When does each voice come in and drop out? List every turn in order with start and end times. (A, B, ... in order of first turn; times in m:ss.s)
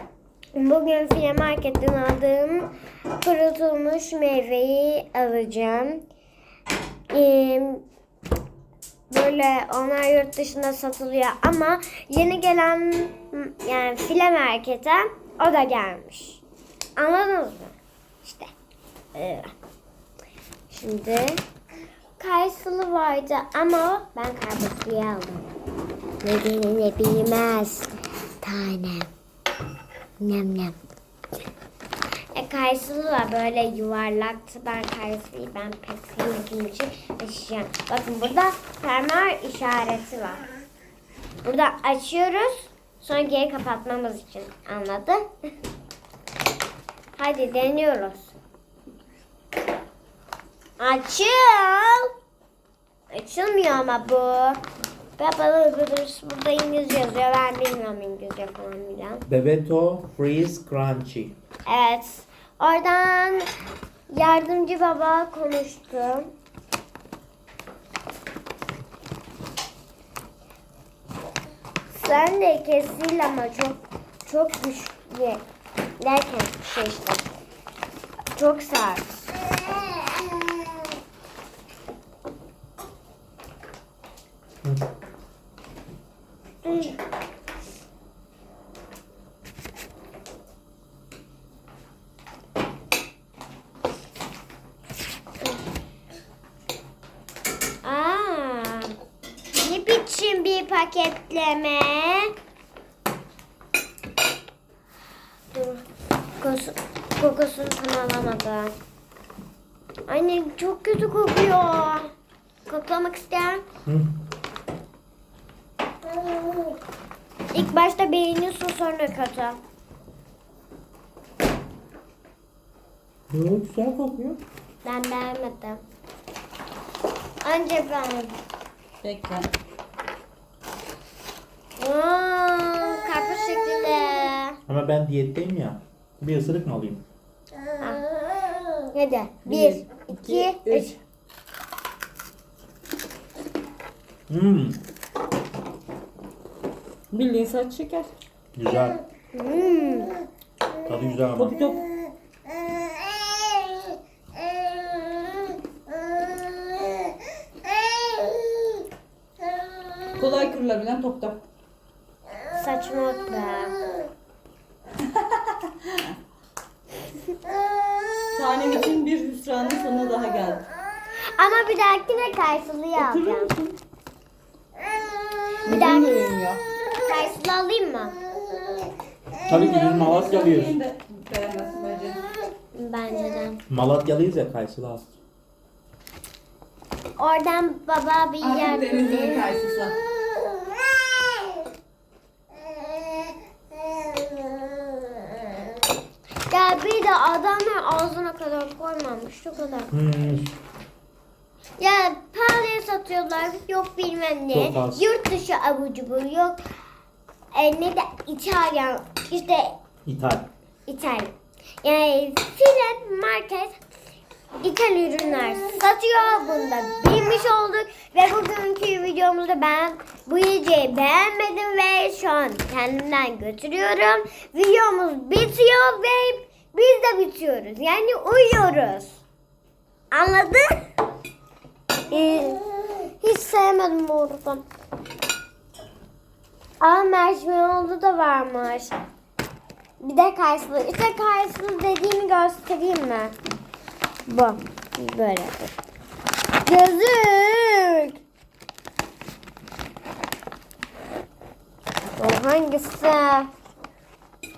0:00.6-0:02.7 A
0:03.2-0:06.0 A
0:07.1-0:07.8 A
0:09.1-0:16.4 A
0:17.0-0:18.5 A
0:19.1-0:19.5 A
0:20.7-0:21.4 A
0:22.2-0:25.5 A
0:26.2-0:29.1 A
0:30.2-0:30.8 A
0:32.3-0:40.4 A
0:41.4-0:45.3 A
0:47.2-0:48.3 A
0:50.8-0:52.1 A
0:53.1-0:54.6 A
0:55.2-0:59.2 A
0:59.3-1:01.4 B
1:01.7-1:03.5 A
1:04.1-1:06.3 A
1:11.9-1:15.4 A
1:16.0-1:17.2 A
1:18.4-1:20.5 A
1:26.6-1:27.0 A
1:37.8-1:38.9 A
1:39.6-1:42.3 A
1:45.5-1:45.8 A
1:46.4-1:48.8 A
1:50.1-1:52.1 A
1:52.7-1:53.6 A
1:53.9-1:54.2 B
1:56.1-1:56.7 A
1:57.5-1:59.6 A
2:03.3-2:04.4 B
2:04.8-2:05.8 A
2:07.4-2:08.4 A
2:09.0-2:09.5 C
2:11.8-2:14.6 A
2:14.7-2:17.0 B
2:18.9-2:20.9 A
2:19.4-2:21.0 C
2:24.3-2:24.8 B
2:27.1-2:28.1 C
2:28.6-2:29.0 B
2:29.3-2:30.1 A
2:30.8-2:31.8 B
2:31.4-2:31.8 C
2:40.2-2:41.4 C
2:42.5-2:43.8 A
2:45.0-2:46.1 C
2:48.3-2:50.7 C
2:51.3-2:53.5 A
2:52.9-2:53.8 C
2:55.6-2:56.6 C
2:55.7-2:56.3 A
2:57.0-2:58.2 A
2:59.4-3:02.3 C
2:59.5-3:00.8 B
3:02.7-3:03.6 A
3:03.7-3:05.1 B
3:07.2-3:09.6 A
3:08.4-3:10.0 C
3:13.9-3:15.6 A
3:16.5-3:19.9 A
3:19.9-3:20.5 B
3:21.8-3:26.6 A
3:24.5-3:25.1 B
3:27.5-3:29.8 A
3:30.1-3:30.5 B
3:30.9-3:33.8 A
3:34.6-3:49.2 A
3:50.1-3:50.8 A
3:52.1-3:54.6 A
3:56.8-3:58.9 A
4:00.0-4:03.3 A
4:04.2-4:05.7 A
4:06.6-4:08.2 A
4:12.2-4:13.5 A